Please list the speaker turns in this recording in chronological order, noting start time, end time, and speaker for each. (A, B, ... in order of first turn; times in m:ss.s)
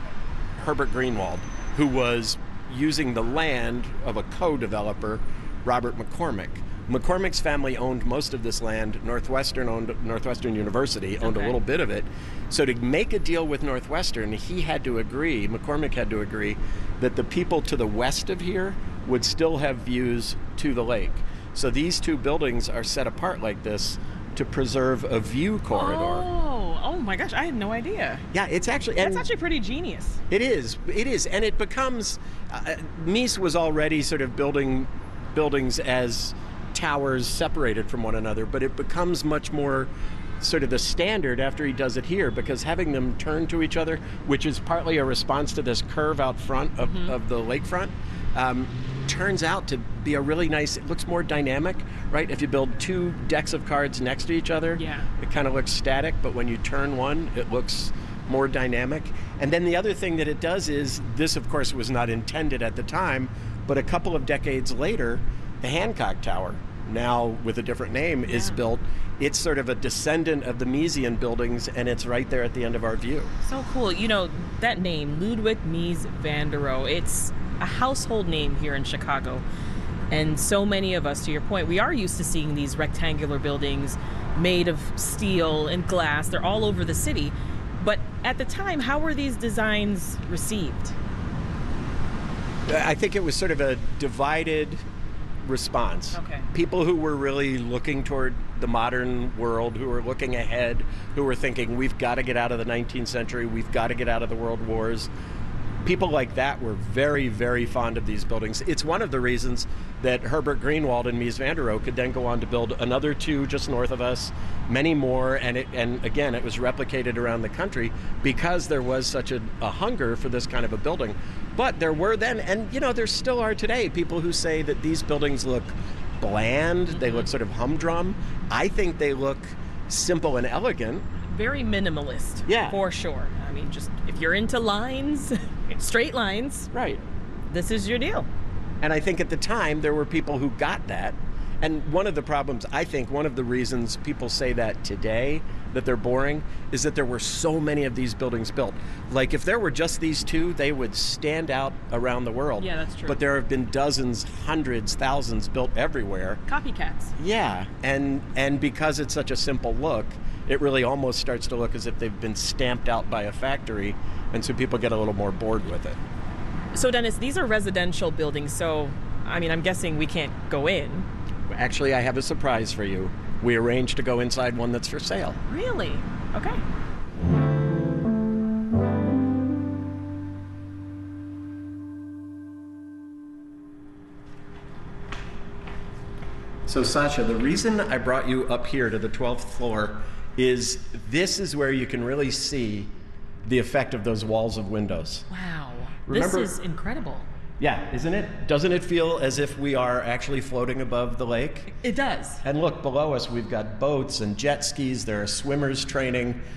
0:00.6-0:26.3 A
0:11.2-0:11.6 B
0:25.7-0:28.3 B
0:28.3-0:29.3 A
0:29.0-0:30.2 B
0:30.3-1:13.3 A
0:46.8-0:47.1 B
0:54.8-0:55.1 B
1:08.3-1:08.6 B
1:13.4-1:19.4 B
1:20.1-1:30.9 B
1:32.7-1:34.8 A
1:35.4-1:45.1 A
1:36.1-1:36.5 B
1:45.8-2:11.1 A
2:11.2-2:16.7 B
2:12.5-2:12.8 A
2:16.7-2:17.0 A
2:17.5-2:18.3 B
2:18.8-2:36.4 A
2:32.6-2:33.2 B
2:36.5-2:37.1 B
2:37.2-2:46.0 A
2:46.7-2:51.1 B
2:51.5-2:55.4 A
2:55.5-2:56.6 B
3:06.7-3:12.9 A
3:13.4-3:15.3 A
3:15.3-3:17.3 B
3:16.1-3:16.5 A
3:17.6-3:21.7 A
3:21.7-3:22.4 B
3:22.4-3:26.4 A